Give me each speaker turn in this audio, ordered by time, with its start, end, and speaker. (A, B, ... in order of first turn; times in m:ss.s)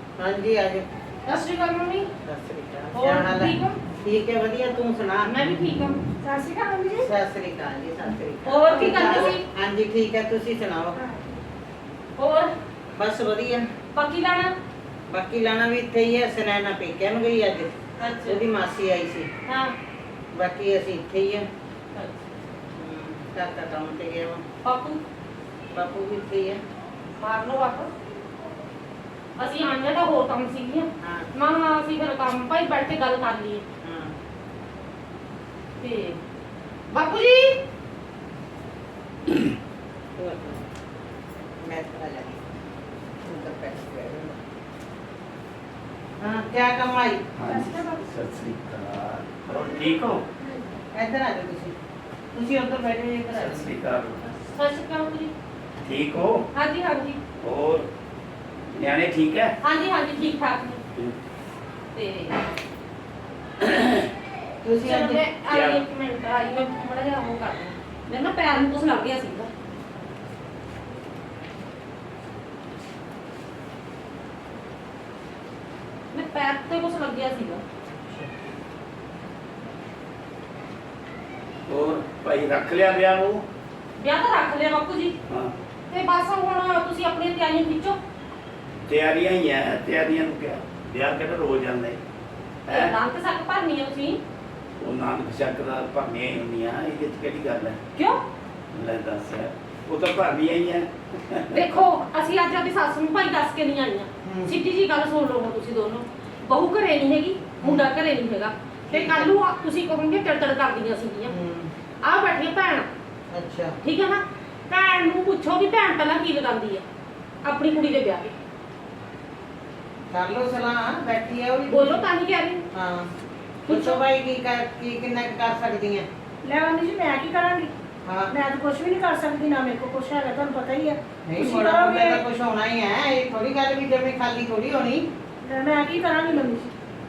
0:00.2-0:00.8 A
0:01.3-0:02.1 B
0:02.2-0:05.3 A
0:02.9-0:03.8 B
0:05.3-0:06.0 B
0:06.2-0:07.1 C
0:07.0-0:11.0 A
0:08.4-0:09.4 B
0:08.7-0:09.3 C
0:11.0-0:11.4 C
0:12.2-0:12.5 B
0:13.0-0:13.7 A
0:13.9-0:14.5 B
0:15.1-0:17.7 A
0:18.0-0:18.4 B
0:18.3-0:19.3 A
0:19.5-0:19.8 B
0:20.3-0:21.5 A
0:22.0-0:22.3 B
0:22.8-0:24.4 A
0:24.6-0:25.0 B
0:25.7-0:26.6 A
0:27.2-0:27.9 B
0:29.4-0:33.6 B
0:31.0-0:31.3 A
0:33.8-0:34.1 A
0:35.8-0:36.2 B
0:36.9-0:37.6 B
0:40.2-0:40.6 A
0:41.6-0:42.4 A
0:43.2-0:44.4 A
0:46.2-0:47.3 A
0:47.4-0:50.2 D
0:47.5-0:48.0 C
0:50.9-0:51.8 A
0:52.3-0:53.7 A
0:53.3-0:54.2 D
0:54.2-0:55.3 B
0:55.8-0:56.4 D
0:56.5-0:57.2 B
0:57.4-0:57.9 D
0:58.8-0:59.5 D
0:59.6-1:00.8 B
1:01.9-1:02.5 B
1:03.6-1:04.1 D
1:04.6-1:05.2 A
1:04.8-1:09.5 B
1:05.5-1:05.8 D
1:16.1-1:17.6 B
1:21.7-1:23.4 D
1:24.0-1:25.2 B
1:25.3-1:25.5 D
1:25.9-1:28.0 B
1:28.9-1:32.0 D
1:32.7-1:32.9 D
1:32.7-1:34.2 B
1:34.8-1:37.8 D
1:38.7-1:41.5 D
1:41.5-1:51.3 B
1:44.2-1:44.6 A
1:47.6-1:47.9 A
1:48.9-1:49.3 A
1:51.3-1:51.7 A
1:52.0-1:52.9 B
1:53.3-1:53.8 A
1:53.8-1:56.8 B
1:57.4-1:58.4 B
2:00.1-2:02.0 A
2:01.7-2:02.6 B
2:02.7-2:03.1 A
2:03.7-2:06.1 A
2:03.7-2:04.0 B
2:06.4-2:07.7 C
2:08.0-2:08.3 A
2:08.3-2:12.2 C
2:11.3-2:15.1 A
2:15.4-2:16.7 C